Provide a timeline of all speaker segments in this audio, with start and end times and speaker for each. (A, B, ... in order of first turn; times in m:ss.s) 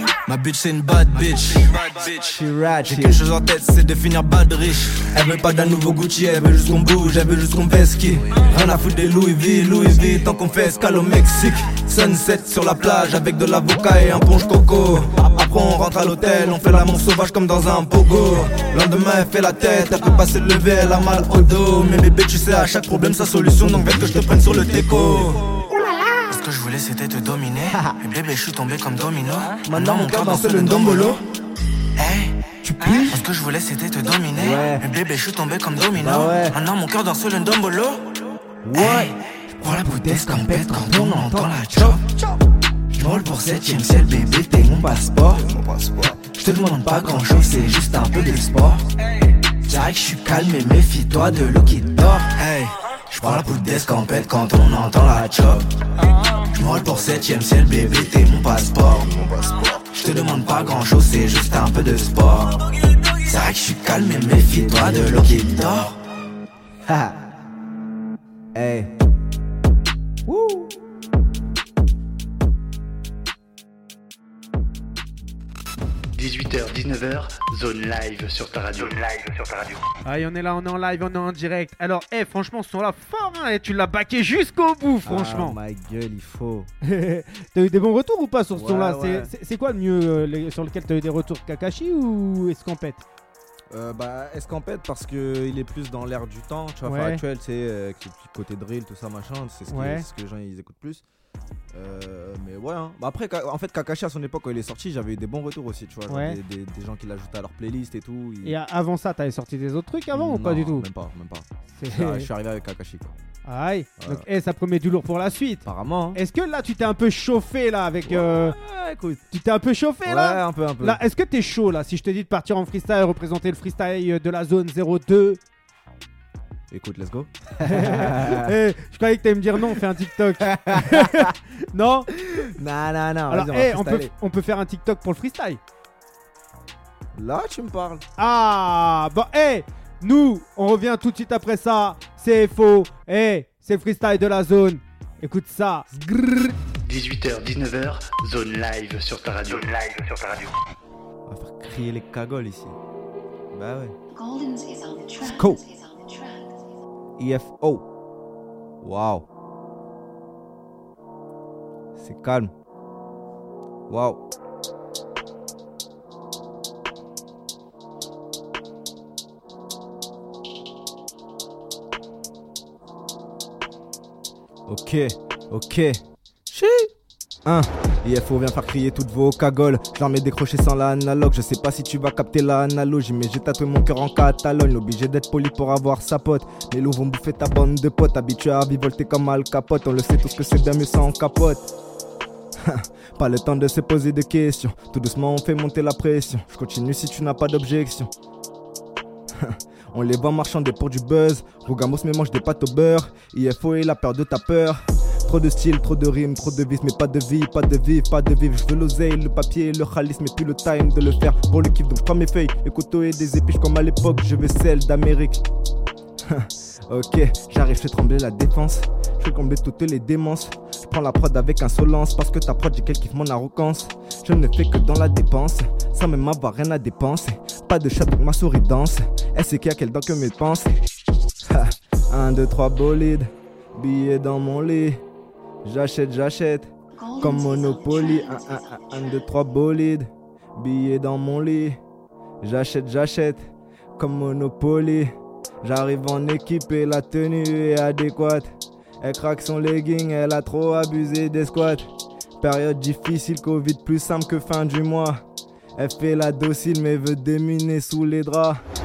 0:00.3-0:07.4 A
0:02.1-0:03.3 B
0:05.2-0:26.2 B
0:08.3-0:10.4 A
0:11.5-0:14.2 A
0:18.0-0:25.4 A
0:26.3-0:31.2 A
0:29.6-0:31.2 B
0:32.0-0:38.0 A
0:32.6-0:33.2 B
0:34.4-0:34.9 B
0:36.0-0:36.6 B
0:38.6-0:39.1 B
0:38.7-0:42.0 A
0:40.1-0:42.0 B
0:42.9-0:45.5 A
0:46.2-0:48.8 A
0:49.6-0:55.7 A
0:53.2-0:53.5 B
0:56.5-0:59.1 A
0:59.8-1:02.6 A
1:03.2-1:06.0 A
1:06.9-1:07.2 B
1:08.5-1:08.9 B
1:10.3-1:10.7 B
1:16.1-1:19.8 C
1:20.0-1:25.6 D
1:25.0-1:26.7 B
1:26.8-1:33.0 D
1:28.5-1:29.3 B
1:33.7-1:41.0 B
1:36.8-1:37.2 D
1:39.7-1:40.1 D
1:41.7-1:48.6 B
1:46.1-1:46.4 D
1:48.4-1:50.9 D
1:50.1-1:53.2 B
1:51.8-1:52.3 D
1:53.4-1:58.6 D
1:54.0-1:54.3 B
1:55.6-1:56.2 B
1:58.0-1:59.2 B
1:59.3-2:05.4 D
2:00.0-2:01.0 B
2:06.7-2:08.6 B
2:07.6-2:12.1 D
2:10.4-2:11.3 B
2:12.2-2:14.1 B
2:13.3-2:15.6 D
2:17.1-2:18.0 B
2:18.2-2:25.9 D
2:25.9-2:26.6 B
2:26.8-2:30.5 C
2:31.3-2:32.8 B
2:33.5-2:34.0 B
2:34.1-2:36.5 E
2:35.2-2:35.6 B
2:37.2-2:37.8 B
2:38.8-2:39.2 B
2:42.0-2:42.5 B
2:43.9-2:44.2 B
2:54.7-2:56.9 B
2:57.4-3:11.7 B
3:12.6-3:18.1 B
3:19.3-3:35.4 B
3:36.2-3:50.7 B
3:51.4-3:55.0 B
3:55.6-4:01.8 B
3:57.0-3:58.9 E
4:02.4-4:05.1 B
4:05.6-4:15.2 B
4:15.8-4:18.6 B